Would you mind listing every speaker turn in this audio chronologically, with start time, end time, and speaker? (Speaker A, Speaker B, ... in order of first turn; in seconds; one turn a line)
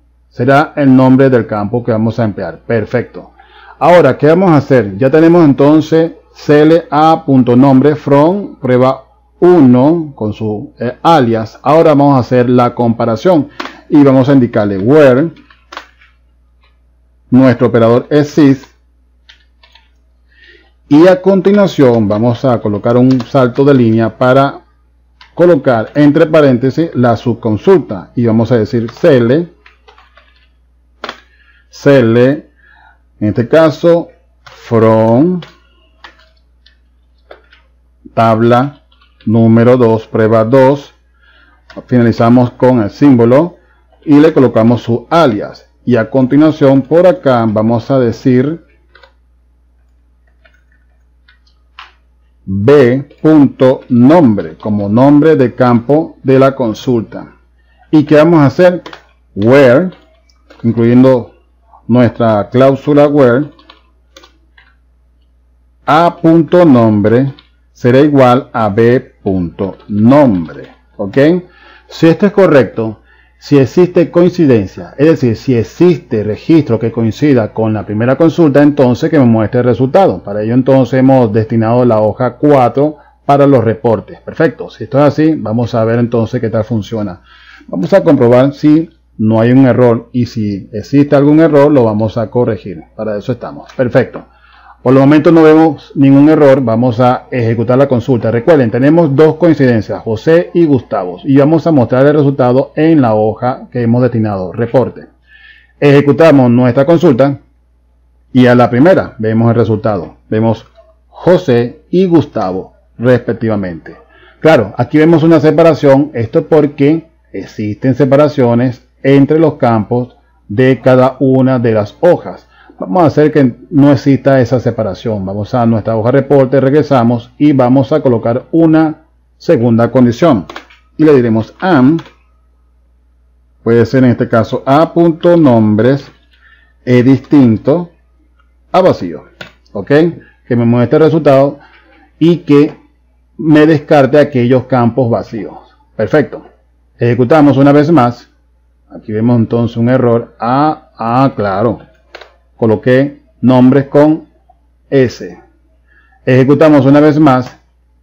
Speaker A: 0.3-15.3
Speaker A: 17.3-18.8
Speaker A: 20.9-24.6
Speaker A: 25.3-29.5
Speaker A: 31.7-32.5
Speaker A: 33.2-35.4
Speaker A: 38.1-41.0
Speaker A: 41.8-48.6
Speaker A: 52.5-57.3
Speaker A: 57.9-59.9
Speaker A: 60.6-61.3
Speaker A: 61.9-63.5
Speaker A: 65.8-94.3
Speaker A: 94.8-105.1
Speaker A: 105.8-107.4
Speaker A: 108.3-132.0
Speaker A: 133.6-136.1
Speaker A: 136.8-137.9
Speaker A: 138.7-141.6
Speaker A: 142.2-142.7
Speaker A: 143.4-146.4
Speaker A: 147.0-148.3
Speaker A: 148.9-151.8
Speaker A: 152.6-154.2
Speaker A: 154.9-155.4
Speaker A: 156.2-157.6